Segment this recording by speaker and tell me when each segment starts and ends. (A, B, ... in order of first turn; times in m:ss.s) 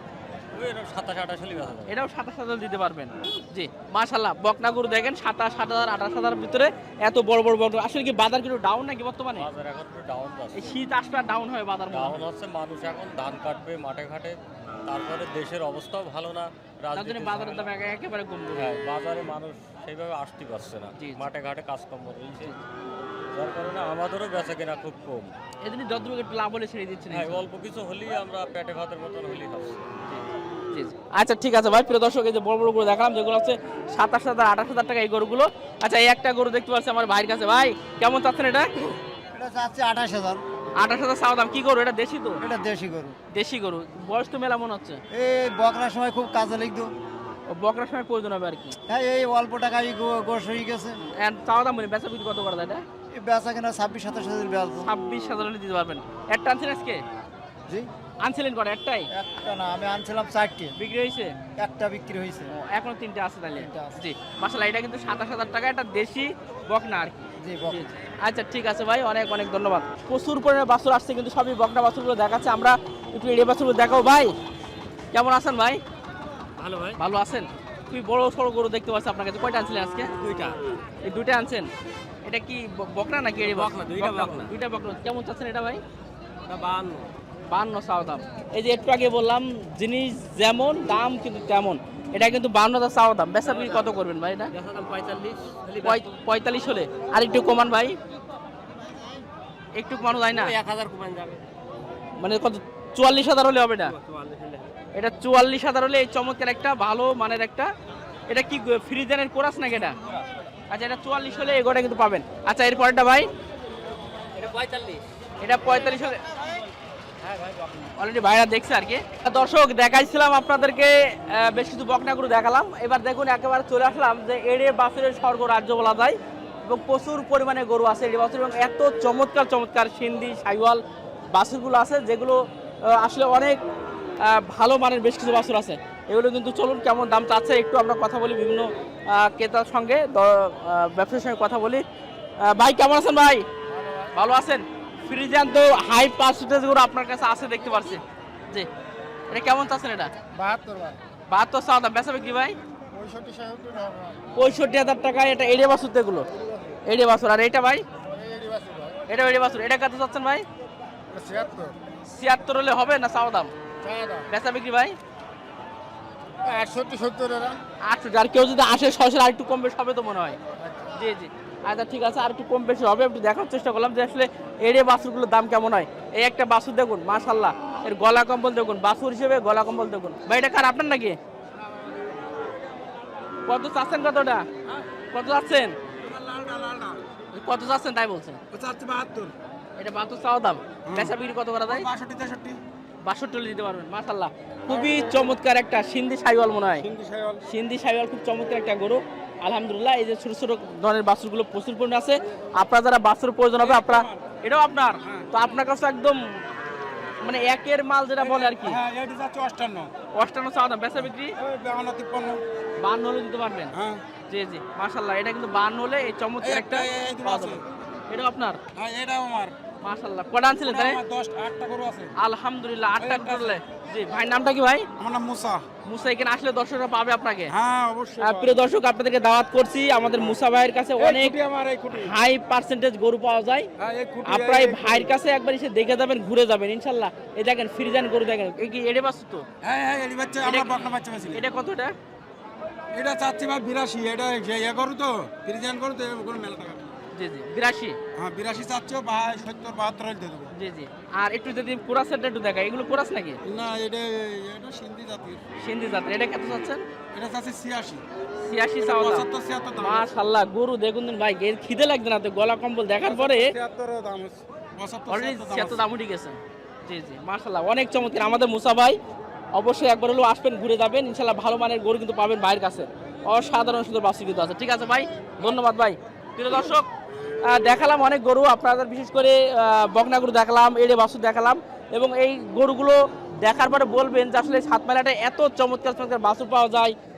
0:00.5-0:02.0 A
0:01.9-0:09.5 B
0:09.3-0:10.8 A
0:10.6-0:12.2 B
0:11.9-0:17.7 A
0:16.9-0:18.7 B
0:18.6-0:22.6 A
0:21.0-0:21.2 B
0:23.3-0:25.3 A
0:25.6-0:27.4 B
0:27.1-0:29.9 A
0:30.1-0:38.7 B
0:39.3-0:40.4 C
0:40.8-0:42.4 B
0:42.4-0:43.1 C
0:43.3-0:45.0 B
0:45.1-0:46.9 C
0:47.5-0:48.8 B
0:48.9-0:51.0 C
0:51.2-0:52.8 B
0:53.1-0:54.9 C
0:54.8-0:57.0 B
0:58.2-0:59.1 B
0:59.1-1:00.7 C
1:00.8-1:01.3 B
1:01.6-1:02.5 C
1:02.5-1:14.3 B
1:03.6-1:03.9 C
1:07.4-1:07.8 C
1:15.1-1:15.8 B
1:16.6-1:16.9 A
1:17.0-1:20.1 B
1:20.2-1:20.5 A
1:21.0-1:21.7 B
1:22.2-1:25.8 B
1:23.5-1:24.4 A
1:26.5-1:27.0 A
1:27.5-1:34.5 B
1:34.5-1:35.9 A
1:35.8-1:38.0 B
1:39.8-1:40.5 B
1:40.4-1:41.4 A
1:42.2-1:43.9 B
1:44.0-1:44.5 A
1:44.9-1:47.7 B
1:48.3-1:50.0 B
1:50.7-1:53.3 B
1:54.4-1:55.0 A
1:55.4-1:56.2 B
1:57.2-1:57.7 A
1:57.9-2:10.8 B
2:11.3-2:13.6 B
2:14.2-2:21.8 B
2:22.4-2:23.4 B
2:23.7-2:24.1 D
2:24.1-2:28.7 B
2:29.3-2:30.1 B
2:30.3-2:31.0 D
2:31.3-2:32.5 B
2:32.9-2:34.2 D
2:34.4-2:36.2 B
2:36.8-2:37.8 B
2:38.0-2:38.9 D
2:39.1-2:40.4 B
2:41.1-2:41.7 D
2:42.1-2:43.5 B
2:43.8-2:44.2 D
2:44.3-2:44.9 B
2:46.4-2:47.6 D
2:47.8-2:50.4 B
2:51.0-3:01.2 B
3:03.5-3:04.4 B
3:05.1-3:05.8 B
3:06.0-3:07.0 D
3:07.3-3:08.4 B
3:08.5-3:09.3 D
3:09.8-3:11.9 B
3:10.8-3:12.6 D
3:13.0-3:16.8 B
3:14.7-3:15.3 D
3:16.7-3:17.4 D
3:17.4-3:26.2 B
3:23.6-3:24.3 D
3:27.2-3:28.8 B
3:28.2-3:29.9 D
3:30.1-3:31.3 B
3:31.4-3:32.4 D
3:32.8-3:33.7 B
3:33.7-3:34.0 D
3:34.3-3:38.6 B
3:36.4-3:37.6 D
3:38.7-3:39.5 D
3:39.8-3:41.0 B
3:40.6-3:42.1 D
3:42.2-3:44.8 B
3:43.0-3:43.6 D
3:45.0-3:45.6 D
3:45.8-3:47.5 B
3:47.5-3:48.7 D
3:48.2-3:51.4 B
3:51.0-3:52.1 D
3:51.9-3:53.7 B
3:53.8-3:55.1 D
3:54.2-3:59.4 B
3:59.6-4:01.4 D
4:00.4-4:01.9 B
4:02.9-4:06.9 D
4:07.1-4:08.0 B
4:08.1-4:10.5 D
4:10.5-4:13.4 B
4:13.4-4:15.4 D
4:15.6-4:16.8 B
4:17.1-4:18.0 D
4:18.4-4:23.5 B
4:18.8-4:20.1 D
4:23.0-4:25.8 D
4:25.1-4:29.0 B
4:29.5-4:36.9 B
4:37.4-4:46.9 B